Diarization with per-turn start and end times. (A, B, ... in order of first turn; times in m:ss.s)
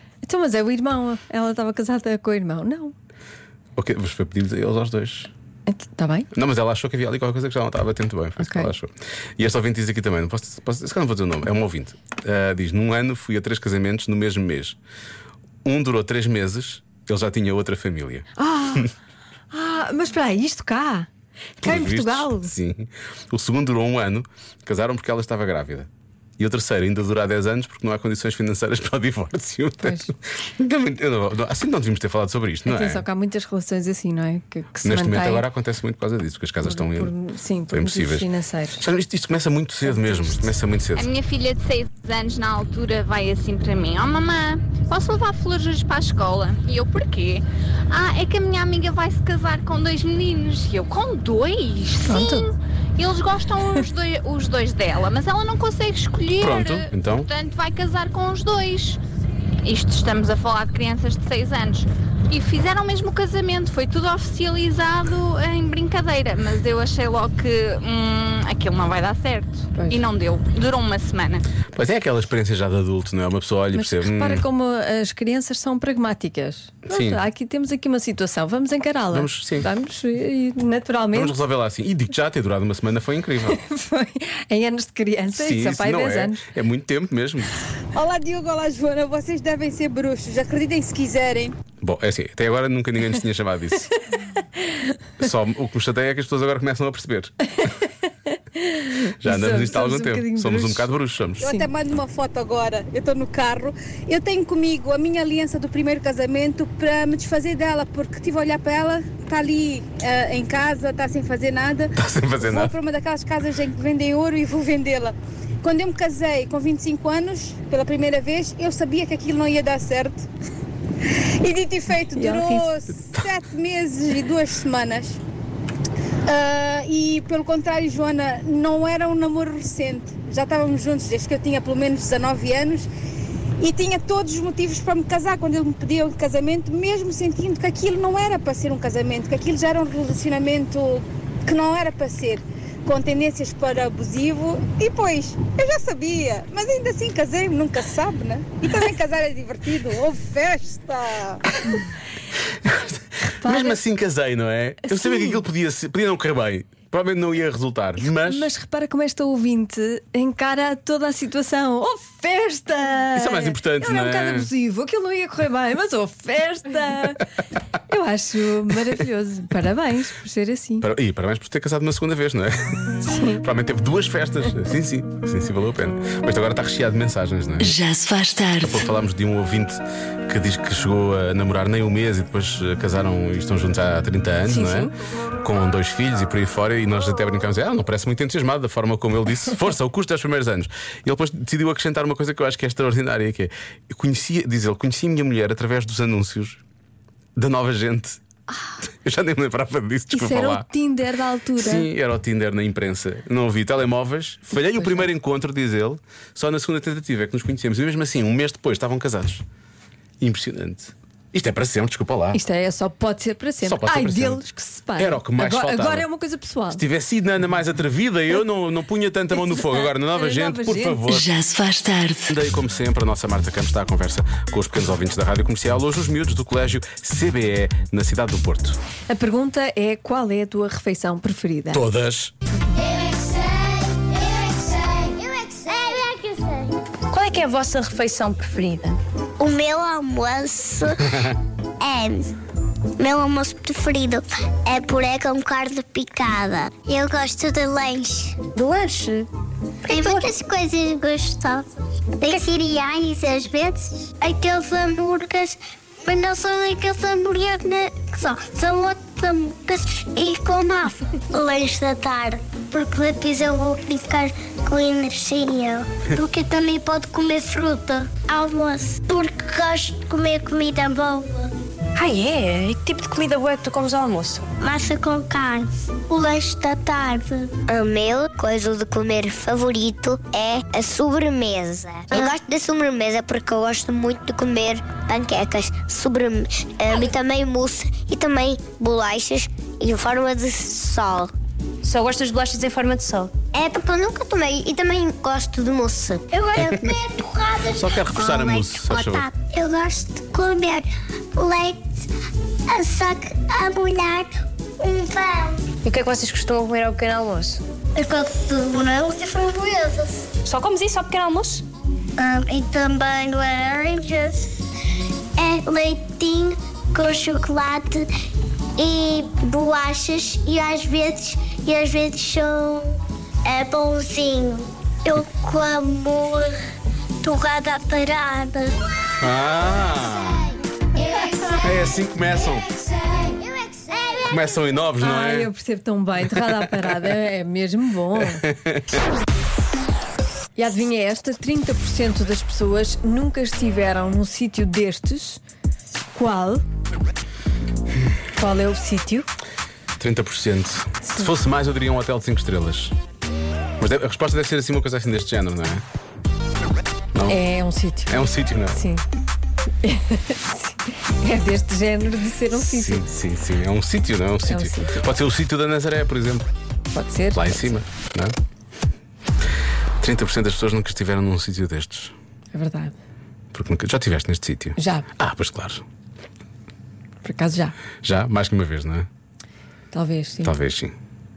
0:00.2-0:02.9 A
0:03.8-0:05.3 B
0:05.7-0:06.3 A
0:06.3-0:14.8 B
0:08.4-0:08.7 A
0:15.6-0:18.9 B
0:18.4-0:18.9 A
0:19.5-0:21.1 A
0:21.6-0:22.5 A
0:21.6-0:33.0 B
0:29.8-0:30.1 A
0:32.7-0:35.4 A
0:34.8-0:37.1 B
0:36.6-0:38.8 A
0:37.7-0:41.1 B
0:39.8-0:40.4 A
0:40.9-0:59.0 C
0:52.0-0:52.5 A
0:56.4-0:57.3 B
0:59.6-1:11.4 C
1:11.7-1:14.4 B
1:13.7-1:21.4 A
1:16.8-1:17.2 B
1:19.1-1:19.7 B
1:21.1-1:23.6 B
1:23.5-1:26.4 A
1:25.3-1:27.6 B
1:27.9-1:31.6 D
1:31.8-1:33.9 B
1:34.6-1:34.9 A
1:35.2-1:37.4 B
1:38.5-1:40.9 A
1:39.2-1:41.5 B
1:41.4-2:00.3 D
1:41.4-1:41.7 A
1:52.0-1:52.7 B
2:01.4-2:05.2 D
2:02.1-2:02.7 A
2:06.3-2:12.9 D
2:13.6-2:31.4 D
2:32.4-2:38.5 B
2:33.2-2:33.8 A
2:34.8-2:35.4 A
2:38.0-2:47.2 A
2:43.1-2:44.5 B
2:47.9-2:50.9 A
2:50.8-2:52.8 B
2:53.0-2:53.4 A
2:53.4-2:57.7 B
2:57.6-2:58.8 E
2:58.6-3:16.6 B
3:04.5-3:04.9 A
3:17.4-3:18.2 B
3:18.8-3:20.6 B
3:20.1-3:21.9 A
3:21.6-3:29.4 B
3:24.7-3:25.1 A
3:30.2-3:32.4 B
3:32.3-3:36.8 A
3:33.6-3:34.4 B
3:35.0-3:36.1 B
3:36.7-3:41.3 B
3:39.3-3:41.1 A
3:41.1-3:42.3 E
3:42.3-3:48.8 B
3:49.1-3:51.8 A
3:51.7-3:52.3 B
3:55.2-3:56.4 F
3:57.1-3:59.0 G
3:59.4-4:01.0 F
4:01.8-4:02.3 F
4:03.0-4:08.4 F
4:08.5-4:09.3 G
4:09.9-4:11.6 F
4:12.2-4:31.5 F
4:32.0-4:34.4 G
4:34.6-4:51.3 F
4:51.8-4:53.3 G
4:53.5-5:00.8 F
4:56.6-4:56.9 B
4:57.7-4:59.3 B
5:01.4-5:01.8 F
5:02.7-5:05.6 F
5:05.8-5:07.6 G
5:08.0-5:10.1 F
5:10.4-5:11.6 G
5:12.2-5:14.4 F
5:15.4-5:18.0 F
5:18.8-5:22.9 F
5:23.4-5:26.5 F
5:27.2-5:28.7 F
5:29.2-5:30.5 B
5:31.5-5:32.7 B
5:33.9-5:34.3 F
5:34.3-5:35.5 B
5:35.0-5:38.4 A
5:36.3-5:36.9 B
5:38.2-5:39.0 B
5:40.6-5:45.4 A
5:46.1-5:46.6 A
5:48.3-5:49.3 A
5:50.0-5:52.9 B
5:51.0-5:51.3 A
5:53.8-5:55.8 B
5:57.1-5:57.4 B
5:57.3-5:59.0 A
5:58.1-5:58.8 B
5:59.8-6:03.1 A
6:02.5-6:06.5 B
6:04.5-6:05.0 A
6:06.9-6:07.7 A
6:07.3-6:08.3 B
6:10.0-6:12.1 B
6:12.5-6:12.9 A
6:13.5-6:15.8 B
6:14.8-6:15.0 A
6:17.2-6:17.7 A
6:18.0-6:19.1 B
6:19.9-6:20.5 A
6:20.4-6:20.9 B